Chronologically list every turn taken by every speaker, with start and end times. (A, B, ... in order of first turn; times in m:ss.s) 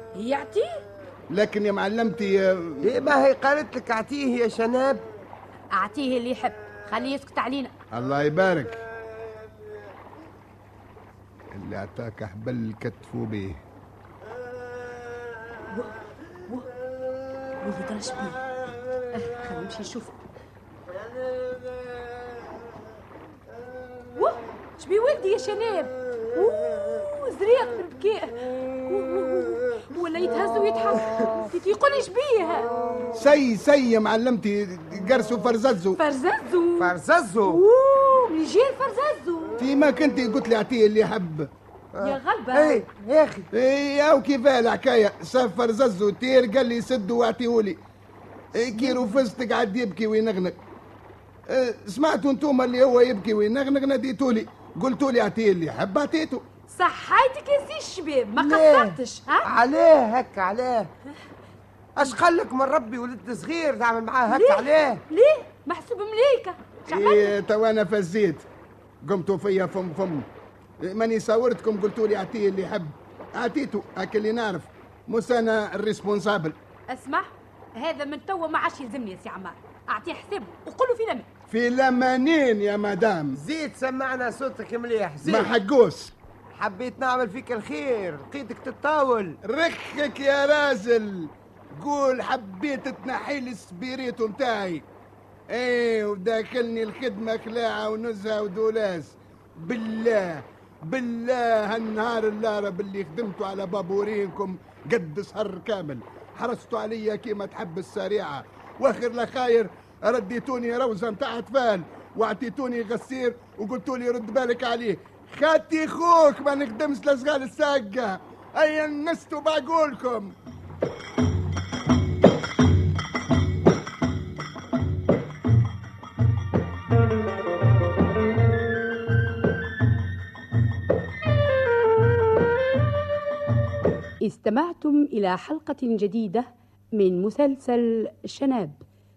0:00.2-0:00.7 A
0:01.3-0:03.1 B
0:02.8-0:05.1 C
0:05.7-0:07.7 A
0:07.9-0:08.8 B
0:11.5-0:13.6 B
0:17.6-0:18.5 A
0:19.1-0:20.1 A
0:24.1-0:32.7 A
0:33.1-0:36.0 B
0:36.0-0:39.5 A
0:36.8-0:37.6 C
0:39.6-0:41.5 B
0:41.9-0:43.5 C
0:42.0-0:42.9 A
0:43.5-0:47.8 B
0:48.6-0:50.6 B
0:48.6-0:49.2 A
0:51.5-0:56.4 B
0:56.7-0:59.5 A
0:58.4-1:00.9 C
1:02.0-1:05.0 C
1:04.3-1:07.3 A
1:06.9-1:08.5 B
1:09.0-1:10.3 B
1:10.8-1:16.6 B
1:16.9-1:21.3 A
1:21.5-1:23.4 B
1:23.3-1:25.5 C
1:25.2-1:26.2 B
1:26.5-1:29.4 C
1:29.4-1:34.9 B
1:35.5-2:00.4 B
2:14.2-2:18.8 A